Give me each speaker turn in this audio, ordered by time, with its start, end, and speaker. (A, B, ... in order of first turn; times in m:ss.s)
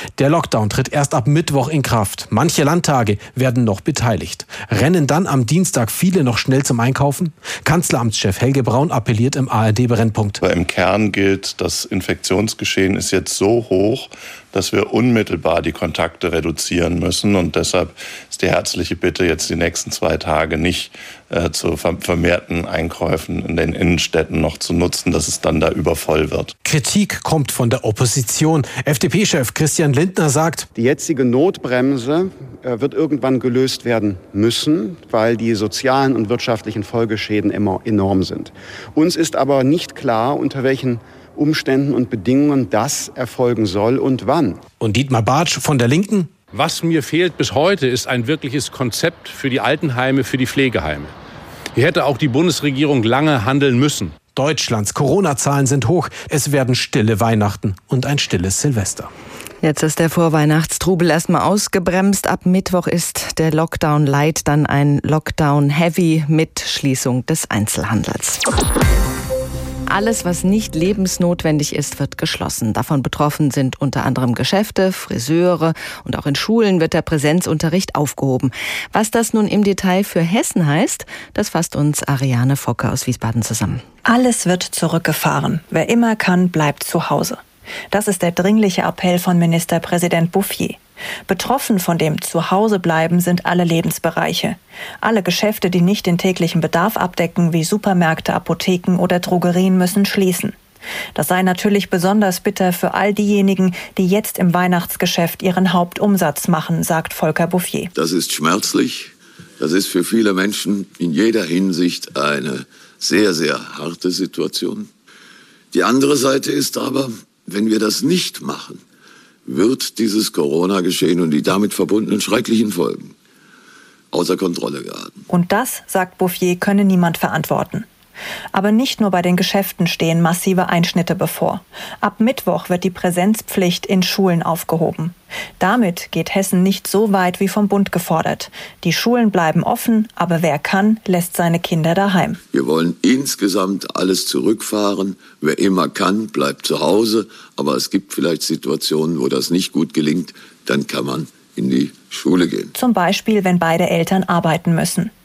0:00.2-0:10.4 A
0:10.4-0:26.5 B
0:26.6-0:30.7 A
0:30.7-0:44.6 C
0:44.8-0:46.3 A
0:46.5-0:47.6 D
0:48.9-0:50.6 D
0:51.8-0:54.1 D
0:54.3-0:59.1 A
0:59.6-1:08.4 E
1:09.9-1:23.8 E
1:24.0-1:27.4 F
1:27.9-1:40.5 F
1:41.2-1:47.9 F
1:47.9-1:54.9 G
1:55.7-1:58.8 G
1:59.4-2:03.1 G
2:04.1-2:05.2 G
2:05.3-2:07.9 F
2:08.5-2:22.4 F
2:22.5-2:32.7 G
2:32.7-2:35.1 F